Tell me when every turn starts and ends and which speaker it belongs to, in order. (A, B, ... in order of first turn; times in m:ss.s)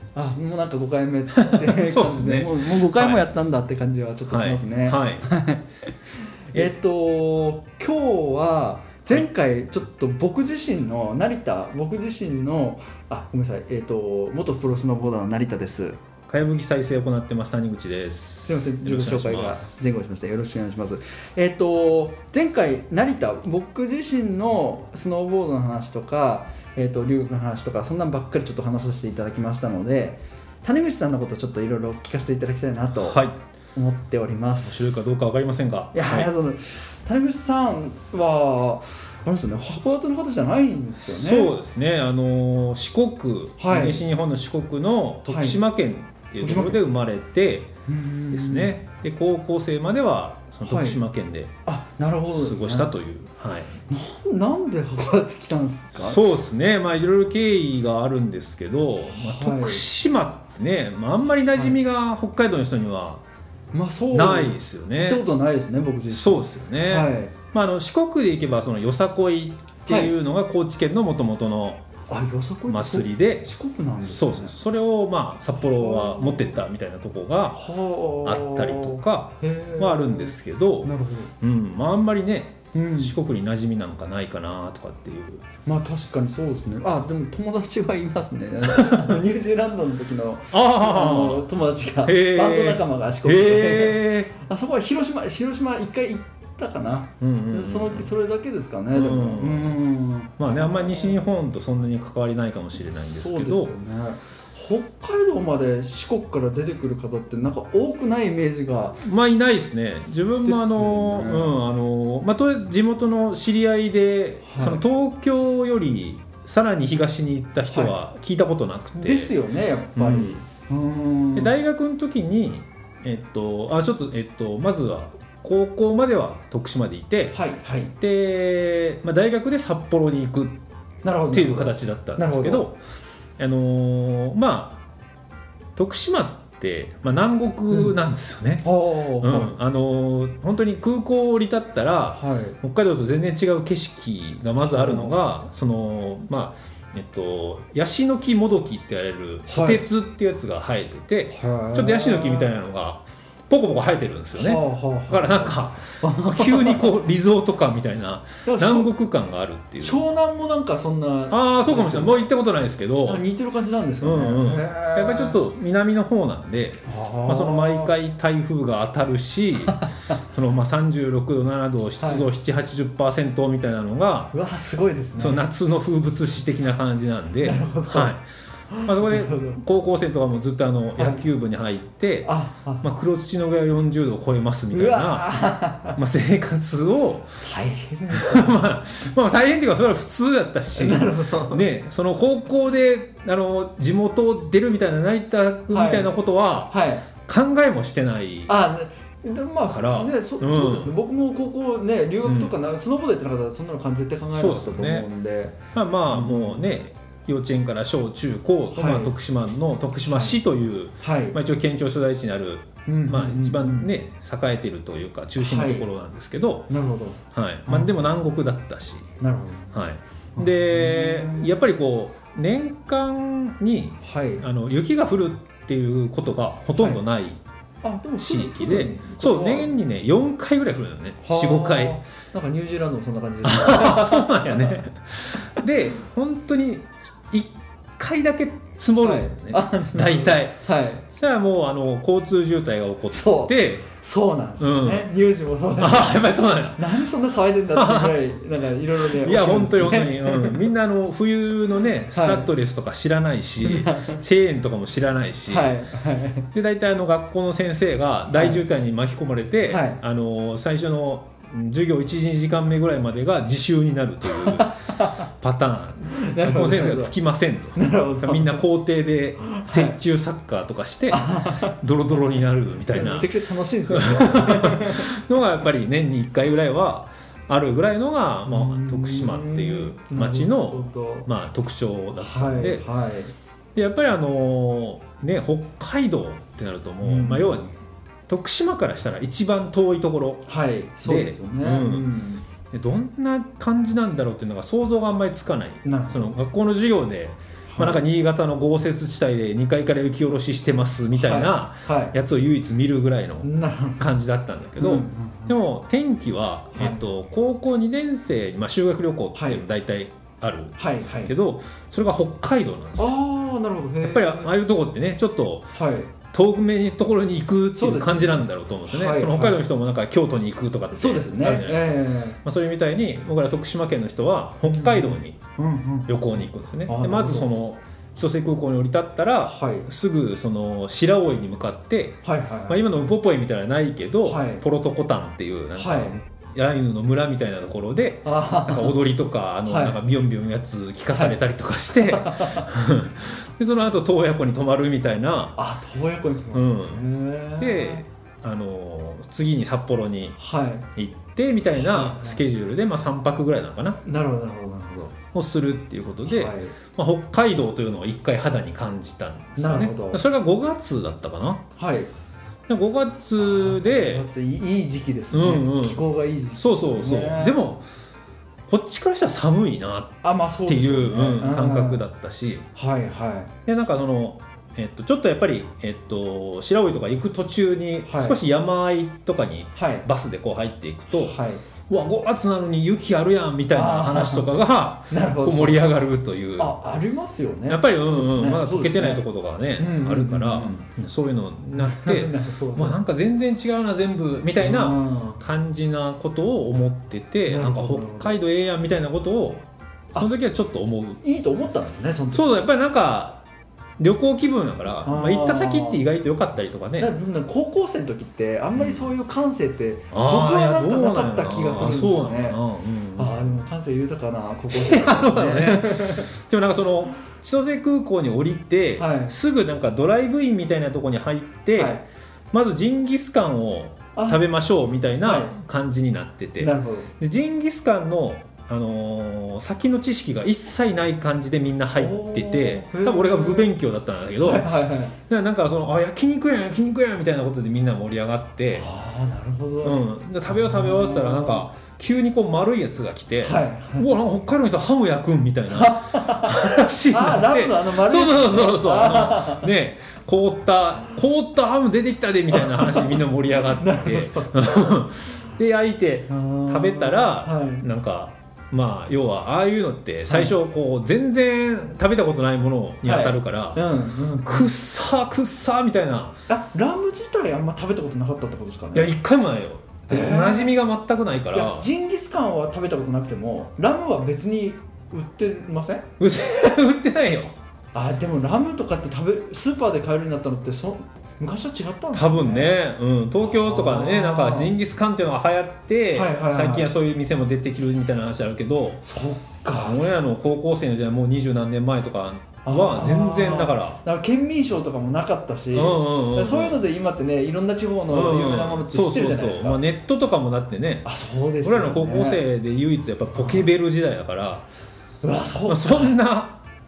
0:00.1-0:05.7 A
0:01.3-0:03.2 B
0:04.3-0:05.3 B
0:06.5-0:16.0 A
0:16.3-0:19.7 B
0:18.4-0:33.2 A
0:33.0-0:33.4 B
0:33.7-0:35.0 A
0:34.6-0:36.3 B
0:35.9-0:41.5 A
0:41.0-0:47.7 B
0:43.6-0:44.1 A
0:45.2-0:45.6 A
0:46.4-0:46.8 A
0:47.9-0:48.7 A
0:48.3-0:51.5 B
0:50.6-0:51.0 A
0:51.6-0:52.9 A
0:52.4-0:53.7 B
0:53.9-0:56.2 A
0:56.0-1:03.2 B
0:59.1-0:59.8 A
1:03.7-1:07.3 A
1:04.1-1:05.2 B
1:06.1-1:11.8 B
1:09.9-1:10.1 A
1:12.1-1:14.5 A
1:12.7-1:13.5 B
1:14.0-1:17.6 B
1:15.6-1:16.6 A
1:17.5-1:21.3 A
1:18.2-1:25.4 B
1:22.7-1:23.1 A
1:25.6-1:41.2 A
1:28.8-1:29.1 B
1:30.5-1:31.5 B
1:32.0-1:34.3 B
1:37.2-1:38.1 B
1:38.9-1:39.8 B
1:40.4-1:43.7 B
1:42.8-1:49.0 A
1:49.0-1:59.3 B
1:50.4-1:51.6 A
1:54.4-1:54.8 A
1:58.9-2:01.5 A
2:00.0-2:00.4 B
2:01.4-2:07.4 B
2:07.3-2:07.9 A
2:08.0-2:10.6 B
2:11.0-2:12.7 A
2:11.3-2:12.8 B
2:13.4-2:14.8 B
2:15.8-2:18.6 B
2:18.6-2:19.5 A
2:19.2-2:40.0 B
2:22.1-2:22.6 A
2:24.6-2:25.2 A
2:29.5-2:29.8 A
2:31.3-2:32.5 A
2:34.3-2:36.9 A
2:38.4-2:38.9 A
2:39.8-2:42.2 A
2:41.3-2:43.2 B
2:43.0-2:45.4 A
2:44.0-2:54.3 B
2:46.8-2:47.9 A
2:52.0-2:52.3 A
2:54.3-2:55.4 A
2:55.2-2:58.2 B
2:57.4-2:58.1 A
2:58.7-2:59.6 A
2:58.8-3:02.3 B
3:01.0-3:01.2 A
3:02.2-3:02.8 A
3:02.8-3:05.2 B
3:04.7-3:06.0 A
3:06.0-3:07.4 B
3:07.4-3:08.6 A
3:08.1-3:18.5 B
3:10.7-3:11.6 A
3:15.7-3:16.1 A
3:16.7-3:17.1 A
3:18.5-3:26.7 A
3:19.7-3:20.9 B
3:22.2-3:22.5 B
3:24.3-3:25.1 B
3:25.7-3:36.7 B
3:28.7-3:29.1 A
3:30.0-3:30.4 A
3:31.0-3:31.4 A
3:32.8-3:33.9 A
3:35.4-3:35.9 A
3:36.7-3:37.9 A
3:37.3-3:39.1 B
3:39.2-3:39.8 A
3:39.7-3:47.4 B
3:40.4-3:41.6 A
3:44.0-3:44.4 A
3:46.7-3:47.0 A
3:47.8-3:49.8 A
3:48.2-3:52.0 B
3:51.2-3:54.8 A
3:53.4-4:00.6 B
3:59.0-4:01.0 A
4:01.1-4:03.8 B
4:03.1-4:10.6 A
4:04.6-4:05.1 B
4:05.8-4:06.9 B
4:07.7-4:08.2 B
4:09.0-4:15.7 B
4:12.1-4:12.5 A
4:13.6-4:14.2 A
4:15.5-4:16.5 A
4:16.5-4:24.8 B
4:18.3-4:18.6 A
4:19.7-4:20.0 A
4:24.3-4:25.2 A
4:25.3-4:33.3 B
4:26.1-4:27.1 A
4:27.8-4:28.6 A
4:29.4-4:30.0 A
4:31.1-4:31.8 A
4:32.9-4:35.1 A
4:33.9-4:42.9 B
4:38.5-4:41.3 A
4:42.2-4:43.3 A
4:43.7-4:47.7 B
4:47.0-4:47.6 A
4:48.3-4:50.4 B
4:50.4-4:52.4 A
4:51.0-4:52.1 B
4:52.7-5:13.2 B
4:55.8-4:56.4 A
4:57.7-4:58.0 A
5:01.1-5:02.1 A
5:03.4-5:04.0 A
5:04.8-5:05.6 A
5:06.7-5:07.0 A
5:09.3-5:09.6 A
5:10.8-5:11.3 A
5:13.0-5:14.5 A
5:14.0-5:15.7 B
5:15.7-5:16.1 A
5:16.3-5:25.4 B
5:17.7-5:19.6 A
5:20.9-5:22.4 A
5:24.6-5:26.1 A
5:26.1-5:45.6 B
5:26.8-5:27.5 A
5:29.4-5:29.9 A
5:32.2-5:32.8 A
5:34.2-5:34.6 A
5:35.8-5:36.1 A
5:38.2-5:39.0 A
5:39.6-5:40.0 A
5:41.1-5:41.4 A
5:41.9-5:42.7 A
5:45.6-5:48.0 A
5:46.5-5:47.0 B
5:47.6-5:50.4 B
5:50.4-5:50.8 A
5:51.0-5:54.0 B
5:51.7-5:52.4 A
5:54.0-5:55.1 A
5:55.3-6:01.6 B
5:56.2-5:56.7 A
5:59.6-6:00.2 A
6:01.7-6:02.1 A
6:02.7-6:04.2 B
6:03.4-6:07.6 A
6:05.3-6:06.0 B
6:06.6-6:07.8 B
6:08.7-6:12.7 B
6:10.2-6:12.0 A
6:12.7-6:13.5 A
6:13.6-6:21.4 B
6:18.0-6:18.4 A
6:19.8-6:20.0 A
6:21.1-6:21.6 A
6:21.9-6:26.7 B
6:23.7-6:25.9 A
6:26.6-6:29.2 A
6:27.7-6:41.2 B
6:29.8-6:30.8 A
6:31.8-6:33.0 A
6:34.6-6:35.4 A
6:37.5-6:38.4 A
6:41.2-6:42.5 A
6:42.3-6:43.4 B
6:44.0-6:47.1 B
6:45.0-6:46.0 A
6:47.0-6:52.6 A
6:48.7-6:49.1 B
6:50.1-6:53.5 B
6:53.2-6:56.3 A
6:54.7-7:02.0 B
6:59.0-6:59.3 A
7:01.8-7:02.0 A
7:02.5-7:14.7 B
7:04.1-7:04.4 A
7:05.2-7:05.5 A
7:06.6-7:07.1 A
7:11.9-7:13.7 A
7:14.4-7:15.1 A
7:15.3-7:18.9 B
7:18.7-7:21.6 A
7:19.8-7:43.9 B
7:23.4-7:24.1 A
7:25.7-7:29.7 A
7:32.5-7:35.0 A
7:36.3-7:37.8 A
7:40.3-7:40.5 A
7:43.0-7:44.7 A
7:44.4-7:46.4 B
7:46.5-7:49.1 A
7:48.9-7:51.9 B
7:50.1-7:50.7 A
7:51.5-7:56.1 A
7:56.2-7:57.5 B
7:57.9-8:02.8 A
8:02.1-8:09.0 B
8:03.4-8:04.7 A
8:06.1-8:06.9 A
8:09.0-8:10.2 A
8:09.7-8:14.0 B
8:12.6-8:19.8 A
8:15.7-8:16.8 B
8:18.1-8:21.1 B
8:21.0-8:22.4 A
8:21.6-8:24.6 B
8:23.3-8:23.7 A
8:25.2-8:26.2 A
8:25.7-8:26.6 B